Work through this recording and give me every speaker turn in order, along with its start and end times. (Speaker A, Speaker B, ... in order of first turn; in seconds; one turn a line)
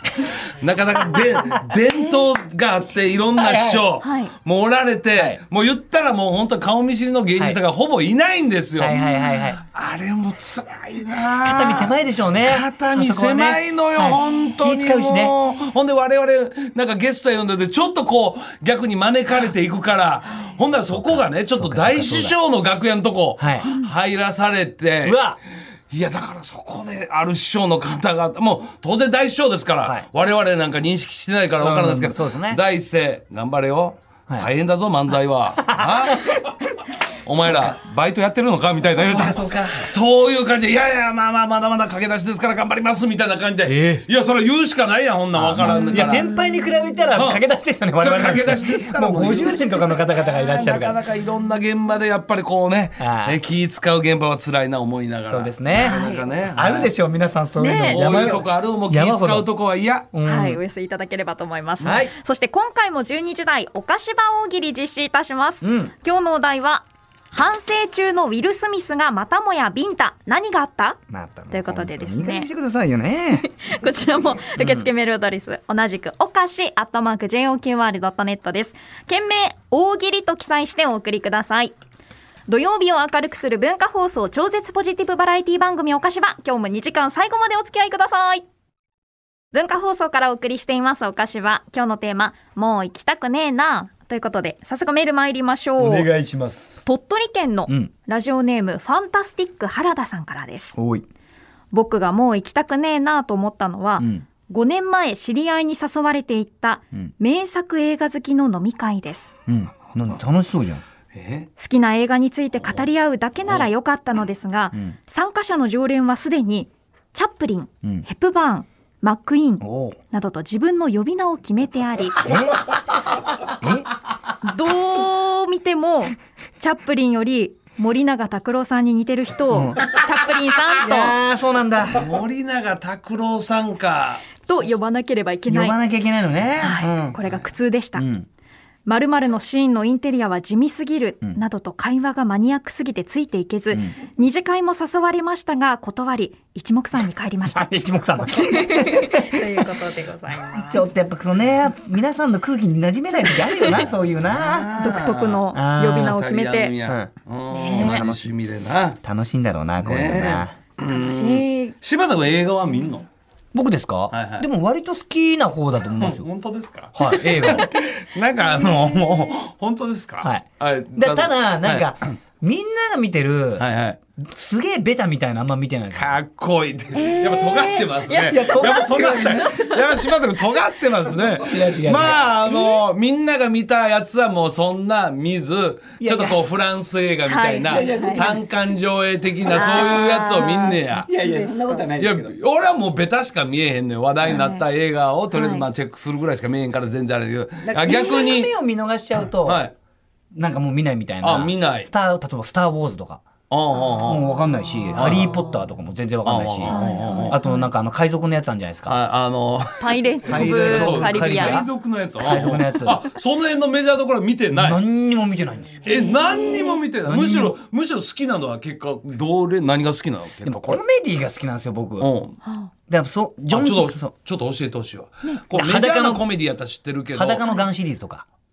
Speaker A: 0.1-9.0
Speaker B: 3.4-3.9
Speaker C: 4.0-4.3
Speaker B: 8.8-9.6
Speaker A: 9.6-25.2
Speaker B: 11.4-15.3
Speaker B: 20.9-22.4
Speaker B: 23.4-23.7
Speaker B: 25.0-25.4
Speaker A: 25.9-36.4
Speaker B: 31.6-32.6
Speaker B: 35.6-36.5
Speaker A: 37.2-46.3
Speaker B: 37.4-37.8
Speaker B: 39.0-39.9
Speaker B: 43.6-44.0
Speaker B: 45.3-51.0
Speaker C: 45.6-46.5
Speaker A: 47.1-47.4
Speaker A: 48.0-56.9
Speaker B: 53.0-53.4
Speaker B: 55.3-59.5
Speaker C: 55.8-56.2
Speaker C: 57.6-58.4
Speaker A: 57.7-60.1
Speaker B: 60.1-60.6
Speaker C: 60.2-71.0
Speaker B: 61.8-62.1
Speaker B: 65.6-65.9
Speaker B: 71.1-73.5
Speaker C: 71.5-72.5
Speaker C: 73.3-81.7
Speaker B: 74.6-74.9
Speaker C: 82.5-88.4
Speaker C: 89.5-96.1
Speaker B: 95.8-96.8
Speaker C: 96.8-100.8
Speaker B: 100.7-101.0
Speaker C: 101.7-109.3
Speaker B: 104.0-104.2
Speaker B: 109.5-110.8
Speaker A: 111.1-111.5
Speaker C: 111.6-122.3
Speaker B: 119.6-120.0
Speaker B: 122.2-123.9
Speaker C: 124.4-131.2
Speaker B: 129.5-130.0
Speaker B: 130.8-132.1
Speaker A: 131.9-134.4
Speaker C: 134.4-135.8
Speaker B: 135.5-137.2
Speaker C: 136.6-138.0
Speaker B: 137.9-138.3
Speaker C: 138.8-147.7
Speaker B: 147.5-149.7
Speaker C: 148.6-150.9
Speaker B: 150.5-154.7
Speaker A: 154.2-155.5
Speaker C: 154.8-156.8
Speaker B: 155.5-156.2
Speaker A: 156.0-159.0
Speaker C: 157.5-158.0
Speaker B: 157.7-158.3
Speaker B: 159.0-160.5
Speaker A: 159.8-163.1
Speaker C: 160.9-161.7
Speaker B: 163.5-166.3
Speaker A: 164.1-164.5
Speaker A: 165.9-171.9
Speaker B: 166.9-167.7
Speaker B: 170.2-173.7
Speaker A: 173.6-174.0
Speaker B: 174.2-176.2
Speaker A: 175.9-191.1
Speaker C: 176.9-179.9
Speaker B: 178.2-179.6
Speaker B: 181.4-182.4
Speaker B: 186.0-186.4
Speaker C: 187.2-188.3
Speaker B: 187.7-188.4
Speaker B: 189.5-190.1
Speaker C: 189.5-191.9
Speaker B: 191.0-192.3
Speaker A: 191.9-198.5
Speaker C: 194.2-194.6
Speaker C: 195.3-195.7
Speaker B: 197.7-199.6
Speaker A: 199.4-199.7
Speaker B: 200.3-203.2
Speaker A: 201.2-201.9
Speaker A: 203.5-204.3
Speaker B: 204.0-208.9
Speaker A: 204.9-205.4
Speaker A: 206.2-207.4
Speaker C: 206.7-207.7
Speaker A: 208.8-214.8
Speaker C: 209.8-211.6
Speaker B: 210.2-213.0
Speaker B: 214.5-215.8
Speaker A: 215.8-220.8
Speaker C: 215.9-216.8
Speaker B: 217.1-217.6
Speaker B: 220.4-222.1
Speaker A: 222.0-222.4
Speaker B: 222.9-224.1
Speaker A: 223.5-227.4
Speaker B: 225.5-226.3
Speaker B: 227.1-228.2